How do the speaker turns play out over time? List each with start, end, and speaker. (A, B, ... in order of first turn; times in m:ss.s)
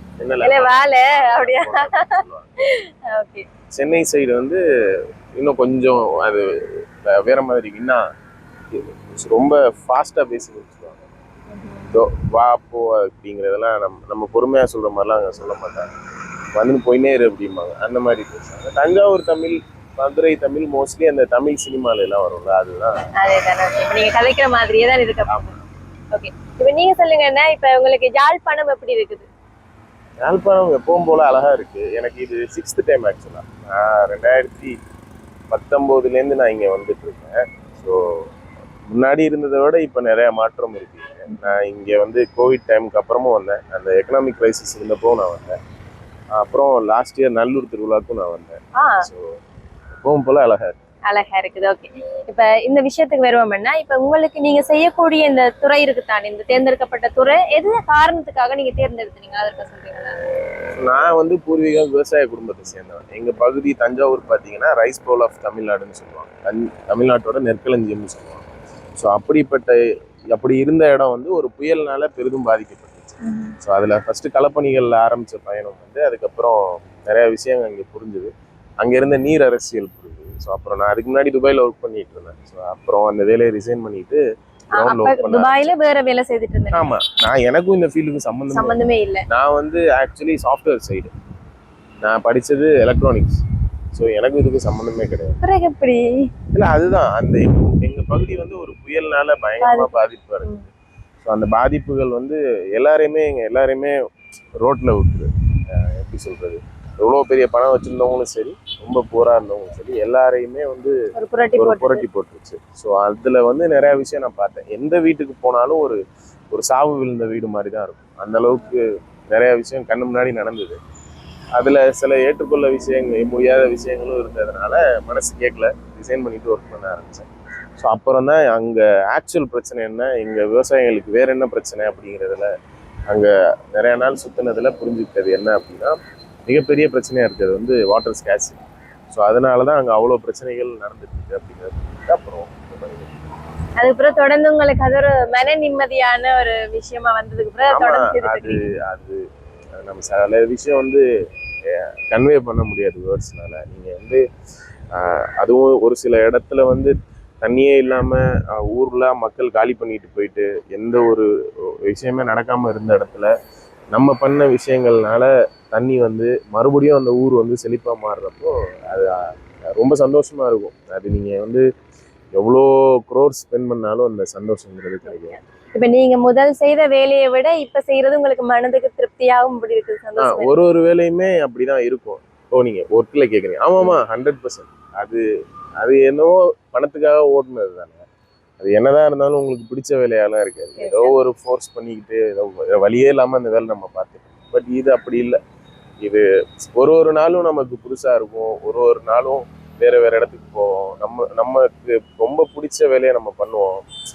0:00.2-0:02.5 A
0:00.4-0:03.5 B
0:03.7-0:04.6 A
0:05.4-0:08.0 A
0:08.7-0:11.0 A
0:11.5-0:11.9 B
0:11.9-0:15.9 A
0:16.5-0:23.0 A
0:23.2-0:25.5 B
0:26.1-0:29.3 B
0:30.2-0:34.8 A
0:35.5-0:38.0 A
0:38.9-0:45.6 A
0:41.3-0:41.6 B
0:46.3-0:49.4 A
0:48.8-0:49.1 B
0:50.0-0:50.8 A
0:51.1-1:00.2 B
1:00.7-1:09.8 A
1:10.3-1:24.2 A
1:13.2-1:13.5 B
1:24.7-1:25.7 A
1:24.8-1:26.8 B
1:26.7-1:28.8 A
1:28.5-1:29.2 B
1:29.3-1:31.1 A
1:32.0-1:35.4 A
1:35.4-1:36.3 B
1:36.5-1:40.7 A
1:39.6-1:40.6 B
1:41.2-1:43.9 A
1:44.6-1:50.9 A
1:51.1-1:52.0 B
1:51.6-1:56.0 A
1:56.5-2:00.8 A
2:01.6-2:12.5 A
2:13.1-2:15.9 A
2:16.5-2:23.2 A
2:23.8-2:28.6 B
2:27.7-2:29.2 A
2:29.8-2:31.0 A
2:31.7-2:34.2 A
2:35.0-2:41.3 A
2:41.8-2:43.3 A
2:43.9-2:51.6 A
2:52.4-2:55.4 A
2:55.1-3:00.5 B
3:00.2-3:05.2 A
3:05.8-3:08.0 A
3:08.6-3:15.4 A
3:10.8-3:11.1 B
3:16.0-3:23.8 A